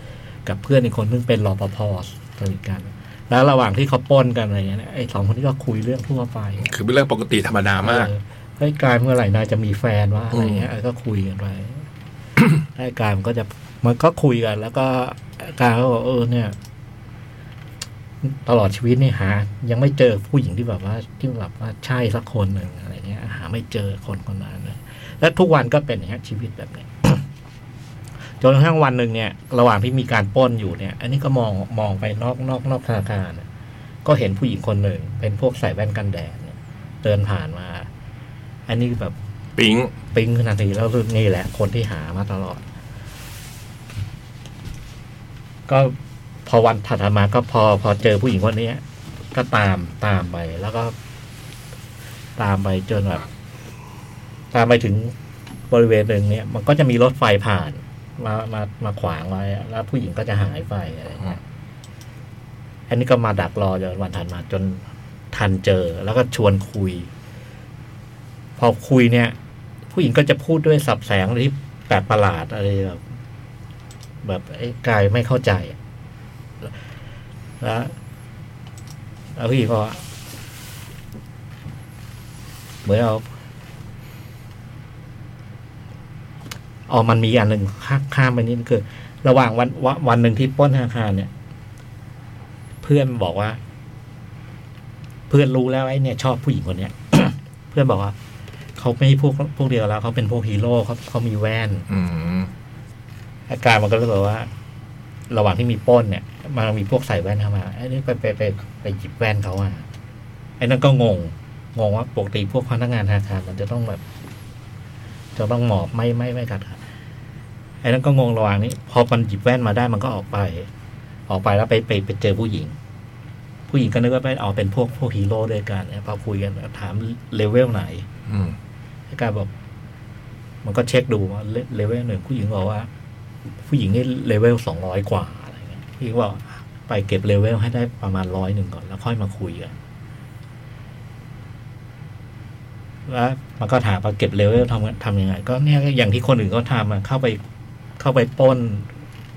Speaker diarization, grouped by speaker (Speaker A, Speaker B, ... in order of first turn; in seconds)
Speaker A: 0.5-6.7, 7.8-11.9, 12.6-16.6, 18.2-27.3, 28.4-33.5, 34.0-37.9, 38.7-39.2, 40.1-42.6, 45.7-51.0, 52.4-53.3, 54.5-55.1, 55.7-61.4, 62.9-67.1, 68.6-69.3, 69.9-73.0, 74.2-75.8, 77.6-78.0, 79.3-80.0, 82.8-83.3, 86.9-91.3, 92.8-93.6, 95.3-98.2, 98.8-101.9, 103.5-104.5, 105.3-109.9, 110.6-114.0, 115.3-116.8, 117.8-120.7, 121.3-122.8, 123.7-128.1, 129.1-129.5, 130.6-132.9, 133.6-139.8, 143.1-147.4, 148.0-148.9
Speaker B: 6.6-8.1, 10.3-10.7, 39.6-39.9, 101.9-102.5, 128.3-128.6